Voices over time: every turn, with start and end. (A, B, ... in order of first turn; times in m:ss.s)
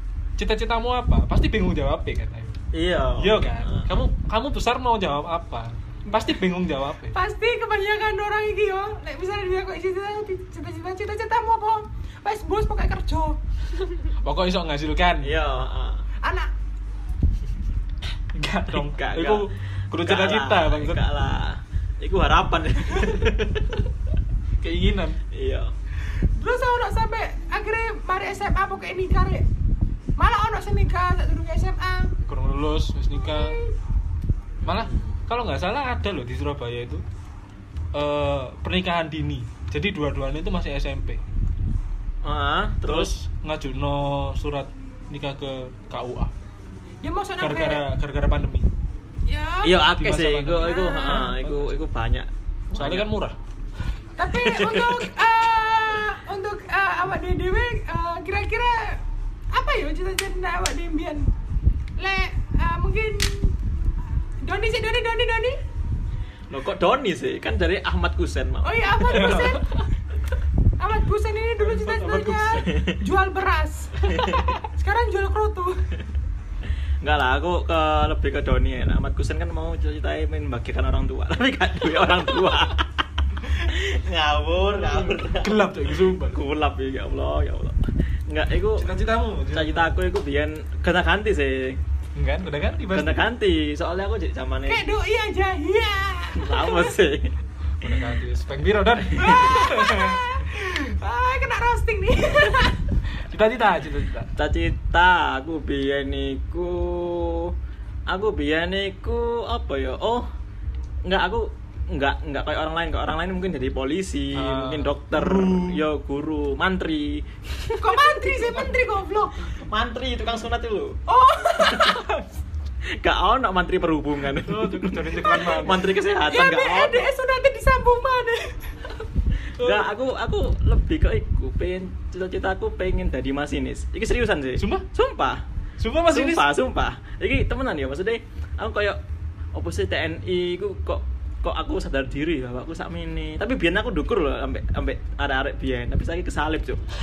0:00.4-0:02.6 A
0:02.7-0:03.9 B
0:03.2-0:07.2 A
0:07.1-0:13.4 C
0:14.2-0:15.4 A
0:15.2-0:16.0 B
0:16.2-0:16.5 C
0:18.3-0:21.0 A
0:18.7-0:23.8 B
0:24.6-0:25.2 A
0:25.3-0:25.7 B
0:26.4-0:29.5 C
0:30.2-0:32.1 C
0:32.2-0:33.6 A
0:33.2-0:33.7 C
0:34.6-0:37.0 A
0:34.6-0:35.2 B
0:37.9-0:41.2 A
0:42.2-0:43.1 B
0:42.8-0:46.3 A
0:47.0-0:47.8 C
0:47.4-0:48.7 A
0:49.3-0:49.9 C
0:49.6-0:53.1 B
0:50.0-0:51.8 A
0:50.6-0:51.3 C
0:52.7-0:53.4 A
0:54.2-0:59.0 C
0:54.4-0:55.1 B
0:59.5-1:01.3 C
1:02.0-1:03.6 C
1:04.4-1:05.6 C
1:06.5-1:09.5 B
1:08.6-1:09.8 C
1:09.0-1:09.9 A
1:10.8-1:15.8 C
1:11.6-1:12.8 A
1:12.7-1:13.0 B
1:14.1-1:14.5 B
1:17.0-1:28.9 B
1:24.7-1:26.4 A
1:28.8-1:30.0 A
1:29.5-1:31.8 B
1:32.1-1:33.2 A
1:32.9-1:34.8 B
1:34.7-1:37.0 C
1:36.4-1:37.3 B
1:37.8-1:40.2 A
1:39.1-1:42.8 C
1:39.2-1:39.4 B
1:43.2-1:44.3 A
1:44.4-1:47.5 B
1:48.1-1:50.3 B
1:51.0-1:57.9 B
1:54.3-1:55.8 A
1:57.7-1:59.5 C
1:59.5-2:01.0 B
2:01.1-2:02.2 C
2:01.5-2:02.0 B
2:03.0-2:07.1 B
2:04.4-2:05.9 A
2:06.2-2:08.6 C
2:09.6-2:15.4 B
2:09.6-2:09.9 A
2:14.6-2:14.8 A
2:15.8-2:16.5 A
2:16.1-2:19.0 B
2:19.5-2:26.8 B